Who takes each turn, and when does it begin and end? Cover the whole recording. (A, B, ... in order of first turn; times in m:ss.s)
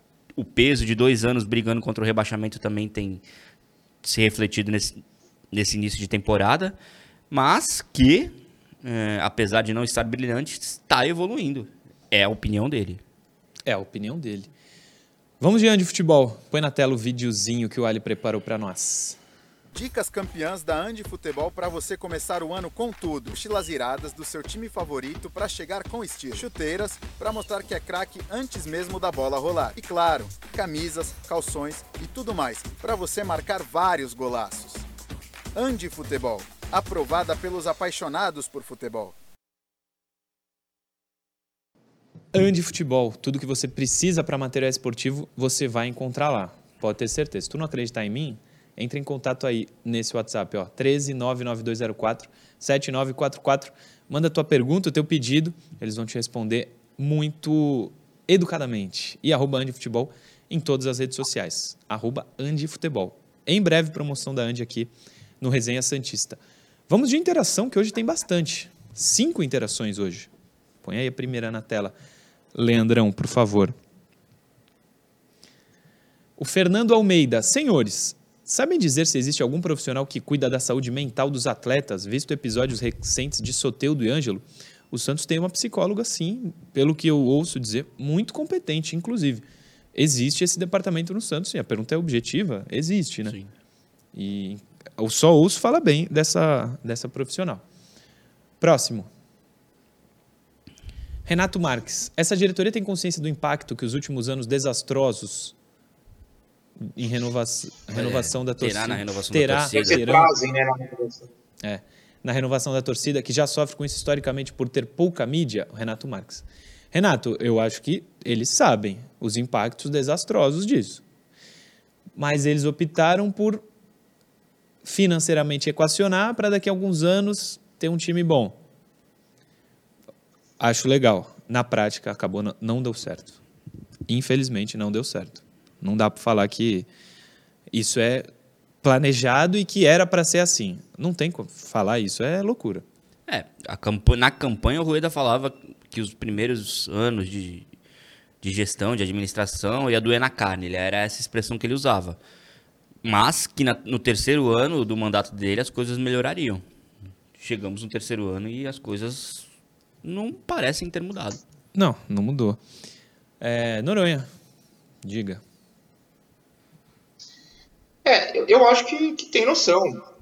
0:00.4-0:03.2 A
0:04.0-0:05.0 A
0:05.5-0:06.8 A
0:07.3-0:13.0 A
0:13.6-0:14.5 B
0:15.4-0:19.2 B
0:19.7-0:34.8 C
0:35.5-0:39.2 C
0:42.3-1:10.3 B
1:10.8-1:11.9 B
1:12.5-1:13.8 B
1:16.4-1:33.4 B
1:34.1-1:37.6 B
1:38.6-1:39.1 B
1:41.2-1:45.6 B
1:46.8-1:50.3 B
1:47.9-1:50.0 A
1:49.7-1:51.3 D
1:51.6-2:01.0 B
2:02.2-2:03.6 B
2:04.8-2:08.6 B
2:10.6-2:13.4 B
2:14.1-2:16.9 B
2:17.7-2:18.3 B
2:18.8-2:22.8 B
2:23.3-2:27.7 A
2:28.4-2:32.2 A
2:33.0-2:36.6 A
2:37.4-2:39.5 A
2:40.0-2:41.4 A
2:41.7-2:42.6 B
2:43.4-2:44.3 B
2:45.0-2:45.4 B
2:48.0-2:50.0 D